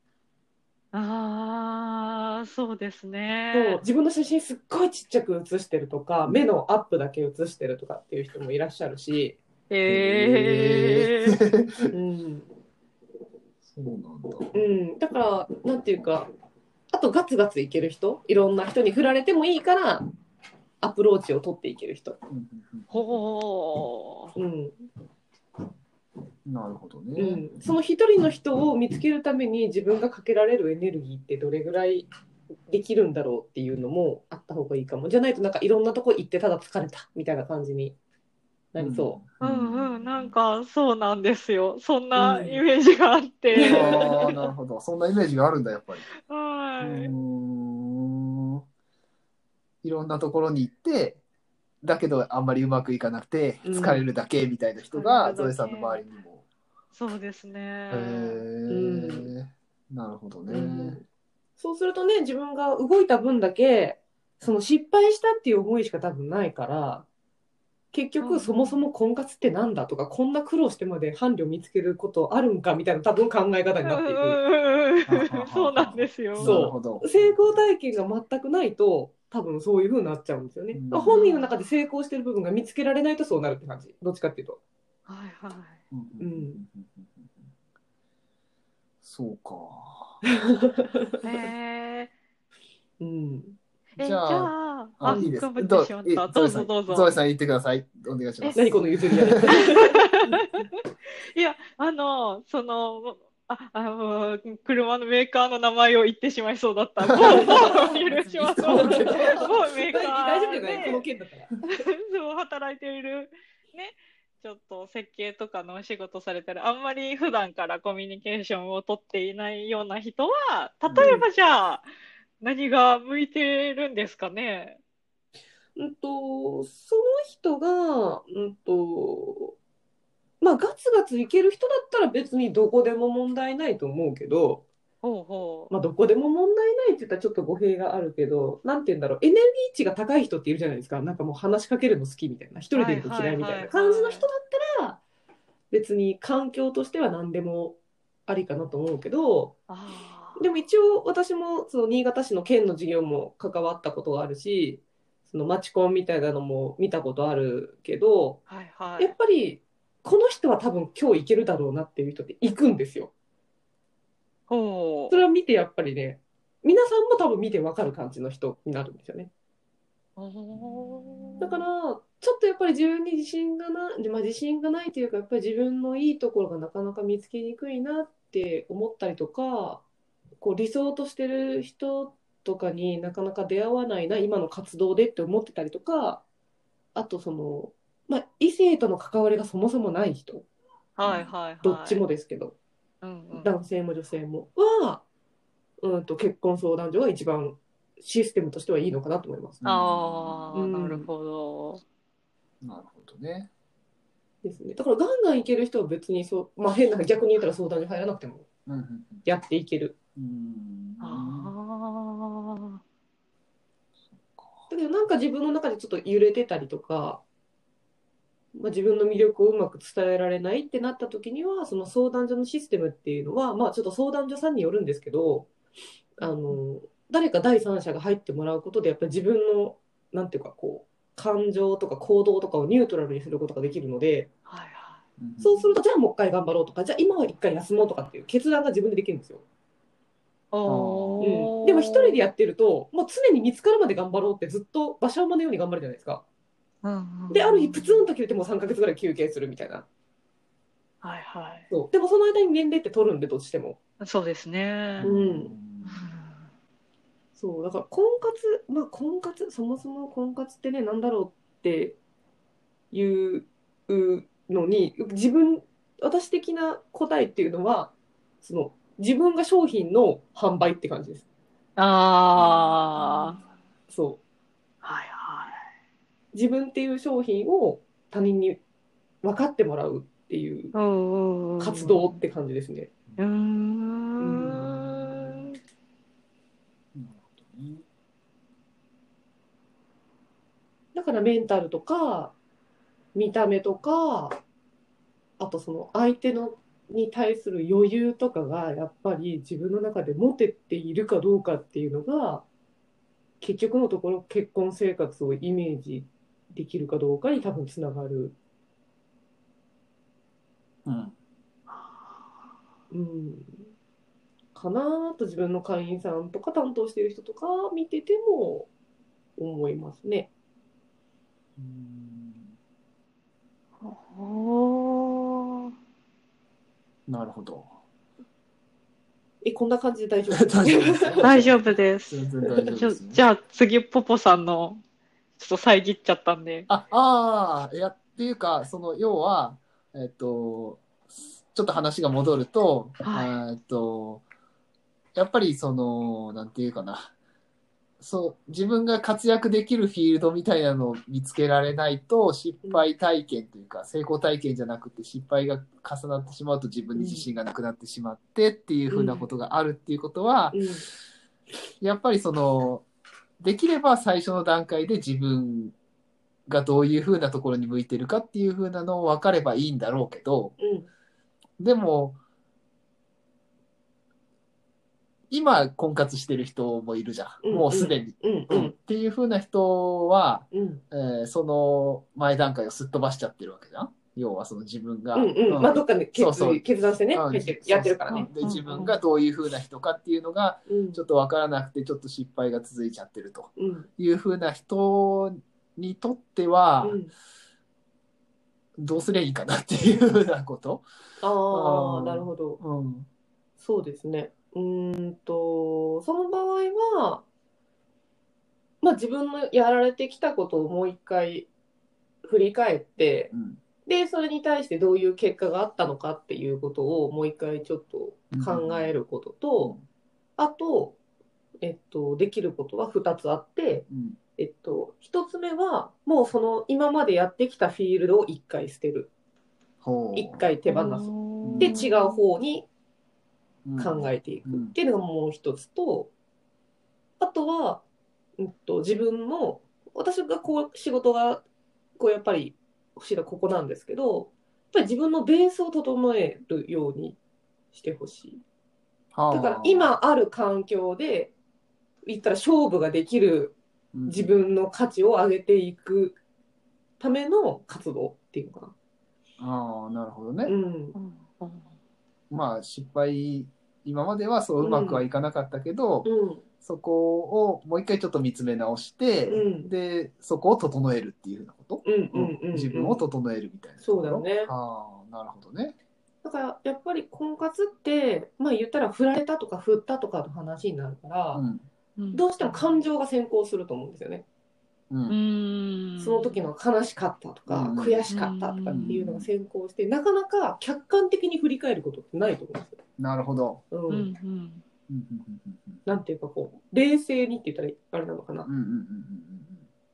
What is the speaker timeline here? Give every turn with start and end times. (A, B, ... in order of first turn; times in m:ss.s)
0:00.9-0:03.8 A
0:03.5-0:09.4 B
0:09.7-0:11.3 A
0:09.9-0:11.9 C
0:11.9-0:12.5 B
0:13.6-0:14.5 C
0:14.5-0:16.3 B
0:16.9-0:20.1 B
0:20.8-0:22.2 B
0:22.3-0:22.9 C
0:22.9-0:24.3 A
0:24.4-0:24.8 B
0:26.4-0:27.6 C
0:27.2-0:32.1 B
0:32.7-0:38.0 B
0:38.7-0:39.3 B
0:38.8-0:40.3 C
0:39.4-0:44.3 A
0:42.1-0:42.6 B
0:43.5-0:44.3 B
0:43.6-0:46.0 C
0:46.2-0:47.1 A
0:46.8-0:48.6 C
0:49.8-0:51.2 C
0:51.8-0:56.4 C
0:53.6-0:54.0 B
0:54.9-0:56.0 A
0:56.9-0:58.4 A
0:57.9-1:01.0 C
0:58.7-0:59.3 B
1:00.5-1:01.0 B
1:01.6-1:07.1 B
1:07.9-1:14.4 B
1:08.2-1:08.8 A
1:13.9-1:16.6 A
1:15.1-1:17.6 C
1:16.4-1:24.6 B
1:20.7-1:21.2 C
1:21.0-1:21.5 A
1:25.1-1:25.8 A
1:25.9-1:27.3 C
1:26.2-1:26.6 B
1:29.0-1:30.2 C
1:30.5-1:31.2 B
1:31.2-1:32.1 A
1:33.0-1:33.6 B
1:34.0-1:37.1 A
1:34.0-1:39.6 C
1:35.1-1:35.3 B
1:38.5-1:40.4 B
1:39.6-1:40.6 A
1:41.3-1:51.0 A
1:47.0-1:49.6 C
1:47.2-1:48.0 B
1:48.7-1:51.5 B
1:51.7-2:01.8 A
2:00.9-2:01.2 C
2:01.0-2:01.2 B
2:02.4-2:04.8 A
2:05.8-2:09.6 B
2:10.4-2:14.6 B
2:15.0-2:15.7 A
2:15.7-2:25.0 B
2:22.7-2:24.2 A
2:25.7-2:29.6 B
2:29.7-2:30.4 A
2:30.4-2:38.4 B
2:38.5-2:39.1 A
2:39.0-2:43.1 B
2:44.5-2:45.2 A
2:45.1-2:49.3 B
2:50.2-2:51.6 A
2:50.5-2:51.6 C
2:51.4-2:59.8 B
3:00.4-3:06.2 B
3:06.9-3:10.5 B
3:11.0-3:12.0 A
3:11.0-3:11.3 C
3:11.6-3:12.6 B
3:13.0-3:13.5 A
3:13.3-3:15.0 B
3:15.8-3:19.6 B
3:19.6-3:20.7 C
3:19.6-3:21.8 A
3:20.5-3:21.1 B
3:22.6-3:23.5 C
3:24.4-3:28.5 B
3:28.7-3:29.2 C
3:29.2-3:30.0 B
3:30.2-3:31.5 C
3:31.0-3:32.8 A
3:34.1-3:34.6 C
3:34.7-3:37.2 B
3:38.5-3:45.5 B
3:46.2-3:54.3 B
3:46.2-3:46.5 A
3:54.4-3:55.0 A
3:55.2-3:55.7 C
3:55.4-3:59.4 B
4:00.5-4:02.2 A
4:00.6-4:01.2 C
4:01.2-4:06.2 B
4:06.8-4:08.0 A
4:07.3-4:09.8 B
4:11.0-4:11.7 A
4:11.7-4:13.8 B
4:14.0-4:15.1 A
4:15.0-4:16.0 C
4:15.0-4:15.5 B
4:15.8-4:16.4 A
4:17.4-4:22.0 B
4:22.9-4:31.2 B
4:31.8-4:33.4 A
4:32.3-4:33.5 C
4:33.9-4:34.2 B
4:34.8-4:35.6 A
4:36.3-4:38.6 B
4:39.2-4:40.7 B
4:40.7-4:42.0 A
4:41.6-4:42.9 B
4:41.9-4:42.2 C
4:43.2-4:45.5 A
4:44.2-4:44.7 B
4:44.5-4:45.5 C
4:46.9-4:47.8 C
4:50.9-4:52.3 B
4:53.1-4:54.4 B
4:55.4-5:02.4 B
5:03.4-5:08.4 B
5:10.8-5:11.1 C
5:11.7-5:12.0 A
5:12.9-5:13.6 B
5:14.5-5:18.7 B
5:19.4-5:20.3 B
5:21.6-5:22.5 C
5:23.8-5:25.7 A
5:27.1-5:27.7 C
5:29.4-5:31.3 B
5:30.3-5:33.2 C
5:31.2-5:34.8 A
5:35.4-5:36.7 A
5:36.7-5:40.8 C
5:41.5-5:44.2 C
5:43.0-5:43.4 A
5:45.1-5:47.1 C
5:48.0-6:00.6 C
5:52.6-5:52.9 B
5:56.9-5:57.3 B
5:58.9-5:59.3 B
6:00.5-6:00.8 B
6:01.8-6:02.8 C
6:03.4-6:05.7 C
6:06.5-6:10.5 C
6:10.6-6:10.9 B
6:11.6-6:12.2 C
6:15.3-6:37.0 C
6:17.4-6:18.7 B
6:20.5-6:20.8 B
6:25.1-6:28.8 B
6:28.1-6:29.0 A
6:30.7-6:31.0 B
6:33.6-6:33.9 B
6:36.8-6:37.1 B
6:38.8-6:40.8 C
6:41.2-6:42.6 B
6:41.5-6:43.1 C
6:43.6-6:47.2 B
6:48.8-6:51.5 B
6:52.2-6:53.3 B
6:53.3-6:53.6 C
6:53.8-6:59.7 B
6:58.3-6:59.0 C
7:00.4-7:01.0 B
7:01.6-7:03.8 B
7:03.9-7:04.2 C
7:04.4-7:09.1 B
7:09.8-7:10.5 C
7:10.1-7:12.7 B
7:10.6-7:12.2 A
7:11.4-7:11.9 C
7:13.6-7:14.7 C
7:13.8-7:16.1 B
7:17.2-7:17.8 B
7:18.4-7:21.4 B
7:22.0-7:27.2 B
7:27.7-7:28.4 B
7:29.1-7:29.9 C
7:29.3-7:31.3 B
7:32.0-7:33.6 B
7:33.9-7:34.4 C
7:34.1-7:36.2 B
7:37.0-7:38.7 B
7:39.4-7:40.5 C
7:40.4-7:41.0 B
7:40.9-7:41.7 A
7:42.3-7:46.1 C
7:44.6-7:45.0 B
7:46.0-7:46.4 B
7:46.6-7:55.8 C
7:49.3-7:49.7 B
7:51.8-7:53.0 B
7:53.8-7:54.5 B
7:56.2-8:01.4 B
8:01.3-8:01.6 C
8:02.0-8:02.6 A
8:02.1-8:04.2 B
8:04.9-8:05.2 C
8:05.1-8:06.4 A
8:06.0-8:12.8 B
8:07.5-8:08.1 C
8:08.1-8:09.0 A
8:08.7-8:09.3 C
8:13.0-8:13.6 C
8:13.7-8:14.1 B
8:13.9-8:14.6 A
8:14.9-8:15.8 C
8:15.8-8:18.5 B
8:18.4-8:19.6 C